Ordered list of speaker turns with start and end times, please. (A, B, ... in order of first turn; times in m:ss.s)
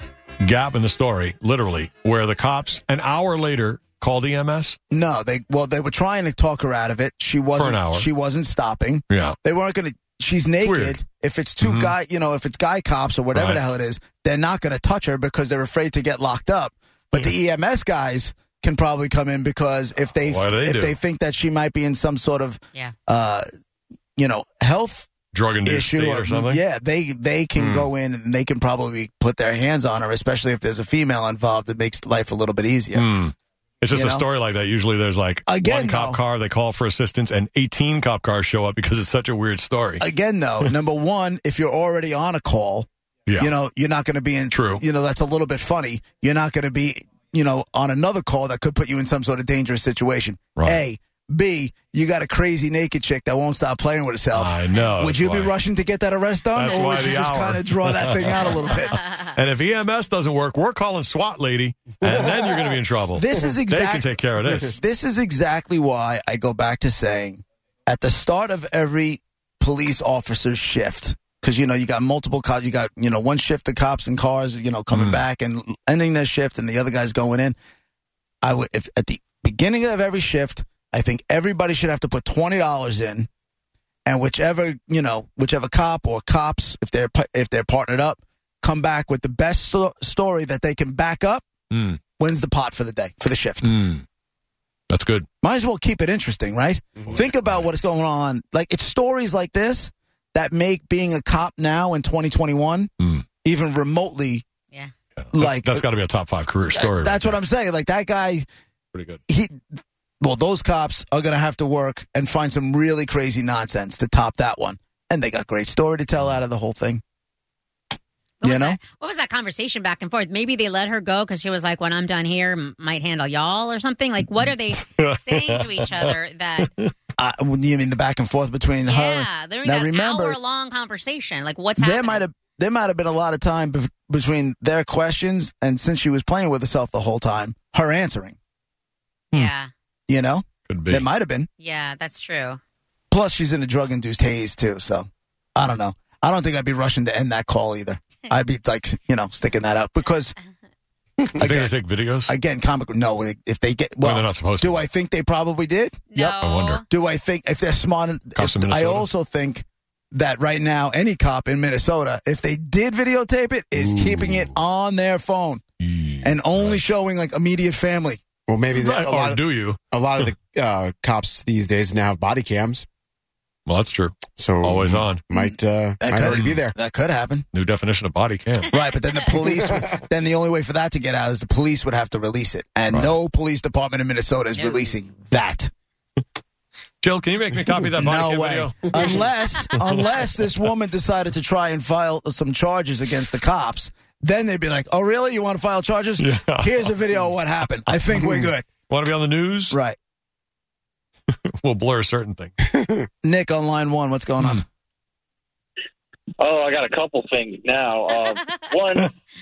0:00.4-0:04.8 A
0:04.9-0:23.4 B
0:07.6-0:08.1 A
0:09.1-0:09.4 A
0:10.6-0:11.0 A
0:11.6-0:11.9 A
0:13.3-0:13.6 A
0:20.2-0:21.0 A
0:24.2-0:25.1 B
0:25.3-0:26.6 A
0:25.6-0:33.1 B
0:27.6-0:27.9 A
0:32.9-0:40.0 A
0:33.9-0:34.2 B
0:35.5-0:36.2 B
0:40.0-0:42.9 B
0:43.4-0:59.0 B
0:44.5-0:44.8 A
0:50.6-0:50.8 A
0:54.3-0:55.5 A
0:56.5-0:58.8 A
0:56.7-0:57.1 C
0:59.3-1:04.8 A
1:03.1-1:04.1 B
1:04.7-1:17.6 B
1:14.9-1:15.2 A
1:18.4-1:23.3 B
1:24.0-1:31.4 B
1:31.7-1:32.0 A
1:32.2-1:33.7 B
1:33.6-1:34.0 A
1:34.9-1:35.3 A
1:35.4-1:42.9 B
1:37.1-1:37.7 A
1:43.0-1:43.2 A
1:43.4-1:44.4 B
1:45.2-1:47.4 A
1:45.3-1:45.8 B
1:46.7-1:48.4 B
1:48.9-1:49.2 A
1:49.3-1:49.6 B
1:50.2-1:57.0 B
1:58.4-2:06.7 C
1:58.4-1:58.8 B
2:05.0-2:06.1 A
2:07.2-2:10.4 B
2:08.8-2:12.2 C
2:11.8-2:18.4 B
2:19.3-2:19.7 C
2:20.1-2:21.5 B
2:20.7-2:21.0 A
2:21.6-2:22.6 C
2:23.1-2:30.3 B
2:31.4-2:32.3 A
2:31.4-2:31.7 B
2:32.2-2:45.6 B
2:34.0-2:34.8 A
2:36.1-2:36.8 C
2:36.4-2:36.8 A
2:38.4-2:39.1 A
2:43.7-2:44.5 A
2:45.8-2:46.9 A
2:46.2-2:48.2 B
2:48.5-2:52.9 D
2:48.7-2:50.3 A
2:53.6-2:55.2 A
2:54.4-2:56.8 D
2:55.3-2:57.5 B
2:56.3-2:56.6 A
2:57.5-2:58.8 A
2:58.7-3:05.7 B
3:02.9-3:03.2 A
3:07.0-3:09.2 A
3:08.0-3:18.7 B
3:09.7-3:10.3 A
3:16.2-3:17.0 A
3:17.9-3:19.8 A
3:19.7-3:20.0 B
3:21.3-3:22.6 A
3:23.2-3:24.6 B
3:26.4-3:29.1 E